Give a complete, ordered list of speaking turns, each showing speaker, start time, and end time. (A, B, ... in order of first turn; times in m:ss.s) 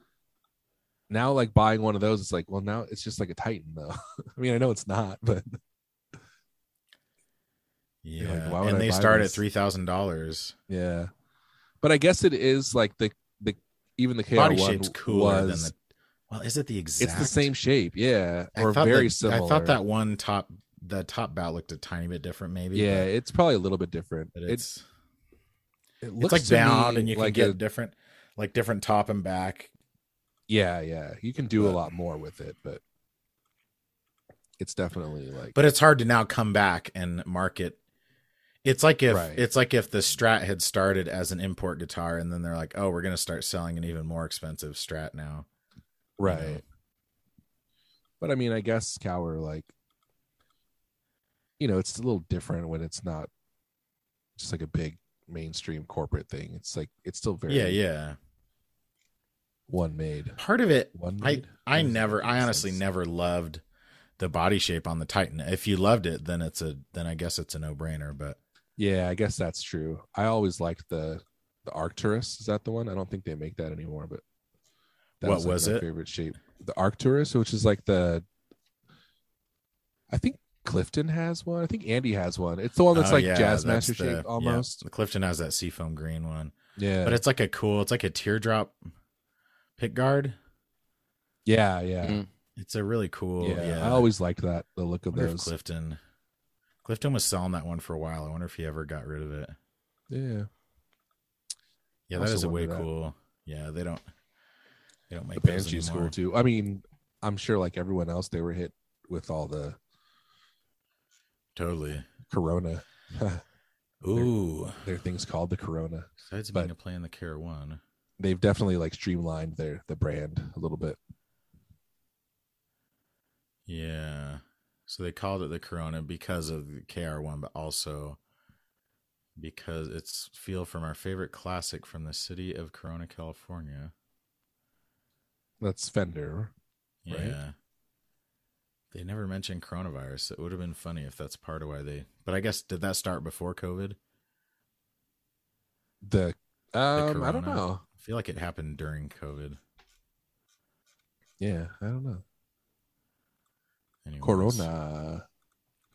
0:01.1-0:05.6 A
0:08.0-0:10.6 B
0:08.2-0:09.4 A
0:10.7-0:11.1 A
0:11.8-0:15.7 A
0:14.4-0:15.8 B
0:16.3-0:17.5 B
0:17.0-0:19.8 A
0:18.6-0:23.1 B
0:22.7-0:24.6 A
0:24.4-0:24.8 B
0:26.0-0:27.6 A
0:26.2-0:29.7 B
0:30.5-0:32.8 A
0:34.6-0:35.6 A
0:35.6-0:37.8 B
0:38.6-0:45.5 B
0:39.1-0:39.4 A
0:46.2-0:46.6 A
0:46.2-0:46.6 B
0:48.2-0:49.7 A
0:51.6-0:53.3 A
0:54.4-0:57.8 A
0:57.5-0:58.2 B
0:59.7-1:00.4 A
1:00.4-1:03.6 B
1:00.9-1:02.8 A
1:04.2-1:08.4 B
1:08.8-1:14.2 A
1:15.2-1:18.3 A
1:15.2-1:15.8 B
1:20.1-1:24.8 A
1:22.9-1:28.8 B
1:26.8-1:27.2 A
1:29.8-1:30.4 B
1:31.5-1:32.2 A
1:32.6-1:34.1 B
1:33.4-1:35.5 A
1:35.1-1:36.0 B
1:36.8-1:39.6 B
1:40.1-1:40.5 A
1:42.1-1:44.0 B
1:42.1-1:42.9 A
1:45.1-1:46.1 B
1:45.4-1:49.8 A
1:51.6-1:52.1 B
1:52.3-1:53.4 A
1:54.0-1:54.8 B
1:54.2-1:56.7 A
1:56.3-1:57.8 B
1:58.2-2:01.0 A
2:03.7-2:08.2 B
2:09.4-2:13.9 B
2:15.6-2:16.5 A
2:17.0-2:17.6 B
2:17.1-2:17.4 A
2:18.9-2:24.0 B
2:26.0-2:27.8 A
2:27.0-2:29.6 B
2:31.4-2:32.2 A
2:34.0-2:34.7 B
2:34.2-2:35.2 A